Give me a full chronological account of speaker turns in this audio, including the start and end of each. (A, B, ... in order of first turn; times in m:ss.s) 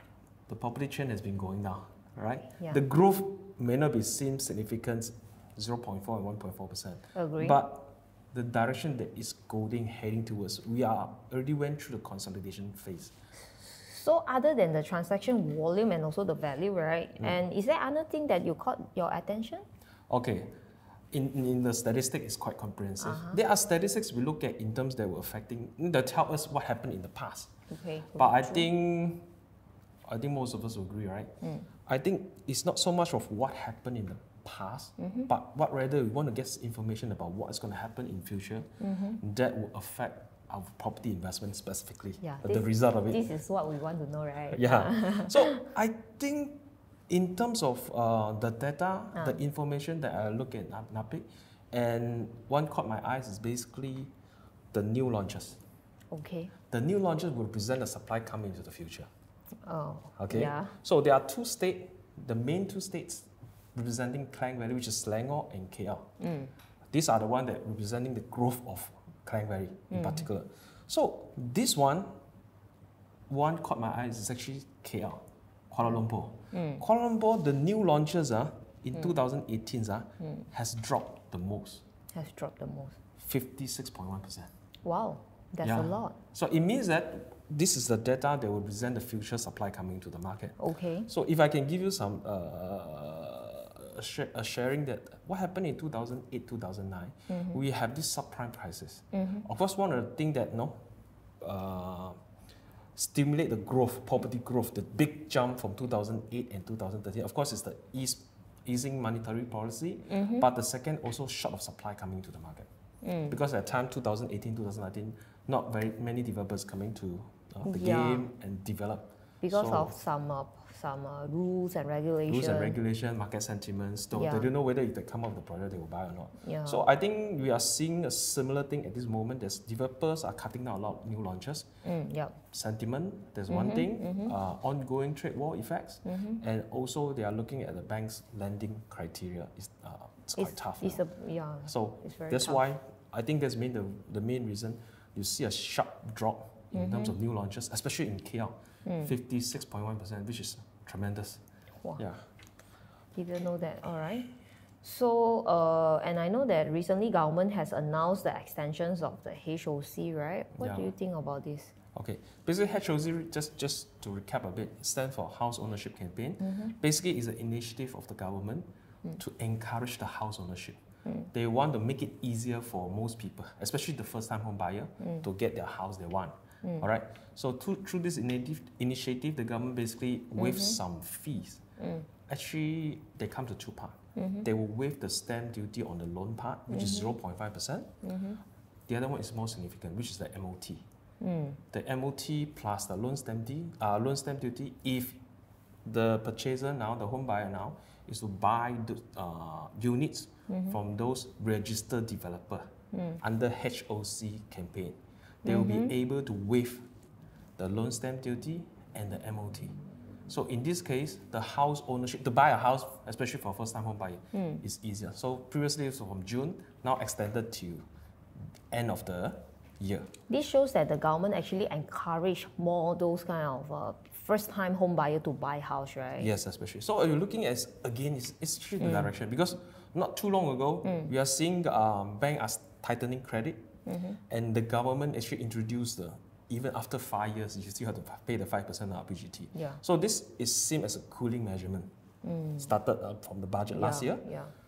0:00.5-0:13.1 A
0:07.1-0:07.6 B
0:13.6-0:19.6 B
0:20.1-0:20.5 A
0:21.1-0:27.5 A
0:23.0-0:23.4 B
0:27.7-0:28.7 B
0:28.2-0:29.3 A
0:30.1-0:31.3 A
0:31.9-0:43.2 A
0:35.0-0:35.3 B
0:38.8-0:39.2 B
0:42.2-0:45.6 B
0:44.5-0:54.1 A
0:49.1-0:49.4 B
0:54.7-0:55.6 A
0:56.1-0:56.5 B
0:56.7-0:59.1 A
0:59.6-1:00.7 B
1:00.2-1:06.1 A
1:06.2-1:06.5 B
1:06.9-1:12.1 A
1:09.9-1:10.3 B
1:13.3-1:21.8 A
1:16.5-1:16.8 B
1:22.1-1:23.0 B
1:23.2-1:24.5 A
1:24.8-1:26.2 B
1:25.6-1:40.8 A
1:30.6-1:31.1 B
1:37.3-1:37.6 B
1:39.1-1:39.4 B
1:41.4-1:42.2 A
1:43.0-1:52.7 A
1:50.1-1:50.4 B
1:53.0-1:53.4 B
1:53.3-2:00.0 A
1:57.6-1:58.3 B
1:59.4-2:02.8 B
2:02.3-2:11.7 A
2:04.1-2:04.5 B
2:06.4-2:06.8 B
2:11.8-2:12.4 B
2:12.5-2:21.0 A
2:13.5-2:14.3 B
2:16.0-2:16.4 B
2:20.4-2:22.6 B
2:21.7-2:31.4 A
2:26.7-2:27.1 B
2:28.8-2:29.1 B
2:32.0-2:32.2 A
2:33.1-2:34.3 B
2:34.8-2:41.7 B
2:40.6-2:40.9 A
2:41.9-2:50.8 A
2:46.4-2:46.7 B
2:51.3-3:01.6 A
3:00.4-3:00.8 B
3:01.8-3:02.1 B
3:02.3-3:07.9 A
3:04.2-3:04.5 B
3:06.7-3:07.1 B
3:08.0-3:08.4 B
3:08.9-3:10.8 A
3:11.2-3:11.6 B
3:11.7-3:15.2 A
3:15.8-3:26.9 A
3:20.5-3:20.8 B
3:22.9-3:23.2 B
3:25.4-3:25.9 B
3:27.6-3:37.9 A
3:34.3-3:34.6 B
3:38.7-3:40.1 A
3:40.3-3:46.3 B
3:46.2-3:53.6 A
3:48.8-3:49.1 B
3:53.8-3:54.2 B
3:54.3-4:01.9 A
3:59.5-3:59.8 B
4:02.2-4:02.7 B
4:02.6-4:04.2 A
4:03.7-4:04.5 B